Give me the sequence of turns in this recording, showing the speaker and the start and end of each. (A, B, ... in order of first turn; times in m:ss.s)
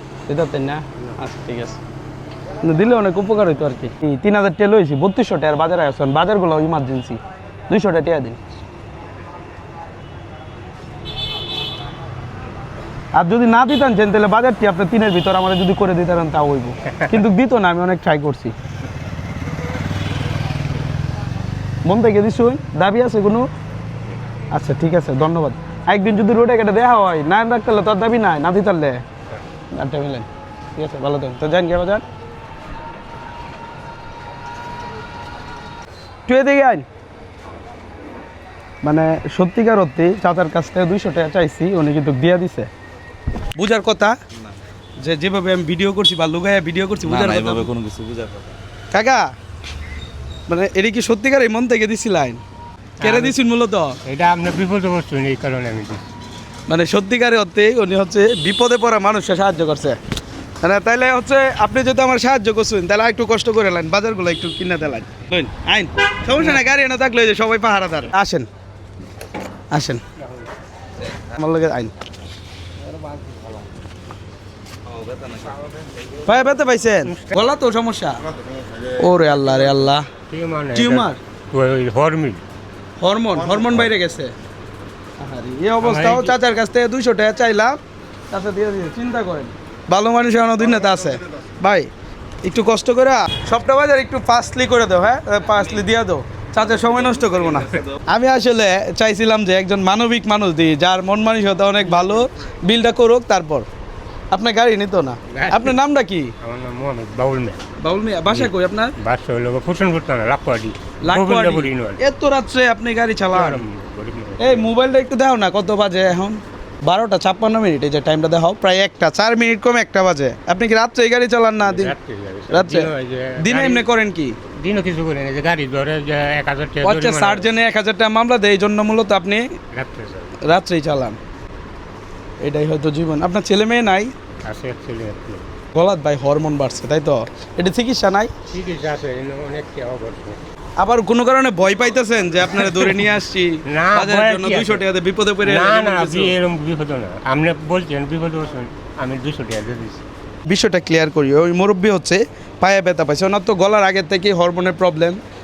0:00.3-0:01.8 A
0:02.6-0:08.4 A
0:13.1-0:18.5 A
0:21.8-0:23.5 A
0:24.5-0:29.0 A
0:29.7-0:32.0 A
0:36.3-0:36.8 A
0:38.8-0:42.7 A
0:43.6-0:44.2 A
0:45.0-0:47.7 A
0:47.1-0:48.5 B
0:48.9-0:49.3 A
0:50.5-0:52.4 A
0:53.0-0:53.4 C
0:53.0-0:54.0 A
0:54.0-0:56.0 C
0:56.7-1:00.0 A
1:00.6-1:08.5 A
1:09.7-1:10.0 A
1:11.2-1:11.9 A
1:13.0-1:13.4 C
1:14.9-1:15.6 B
1:16.2-1:18.3 A
1:17.1-1:17.4 C
1:19.0-1:20.1 A
1:20.3-1:22.4 C
1:20.8-1:21.2 A
1:23.0-1:24.3 A
1:25.2-1:27.8 A
1:25.8-1:26.4 C
1:28.3-1:31.9 A
1:32.4-1:43.7 A
1:44.3-1:46.3 A
1:45.3-1:45.8 C
1:46.4-1:47.6 C
1:47.8-1:49.0 A
1:48.3-1:52.0 C
1:51.0-1:53.6 A
1:53.3-1:54.7 C
1:54.4-2:01.9 A
2:01.6-2:03.9 C
2:02.5-2:04.4 A
2:04.6-2:07.5 C
2:06.8-2:09.5 A
2:09.7-2:10.4 C
2:10.4-2:11.2 A
2:12.4-2:14.1 A
2:14.4-2:15.4 C
2:15.7-2:18.3 A
2:18.5-2:20.4 C
2:20.8-2:26.3 A
2:22.5-2:23.1 C
2:23.7-2:24.8 C
2:25.4-2:30.0 C
2:30.5-2:35.2 A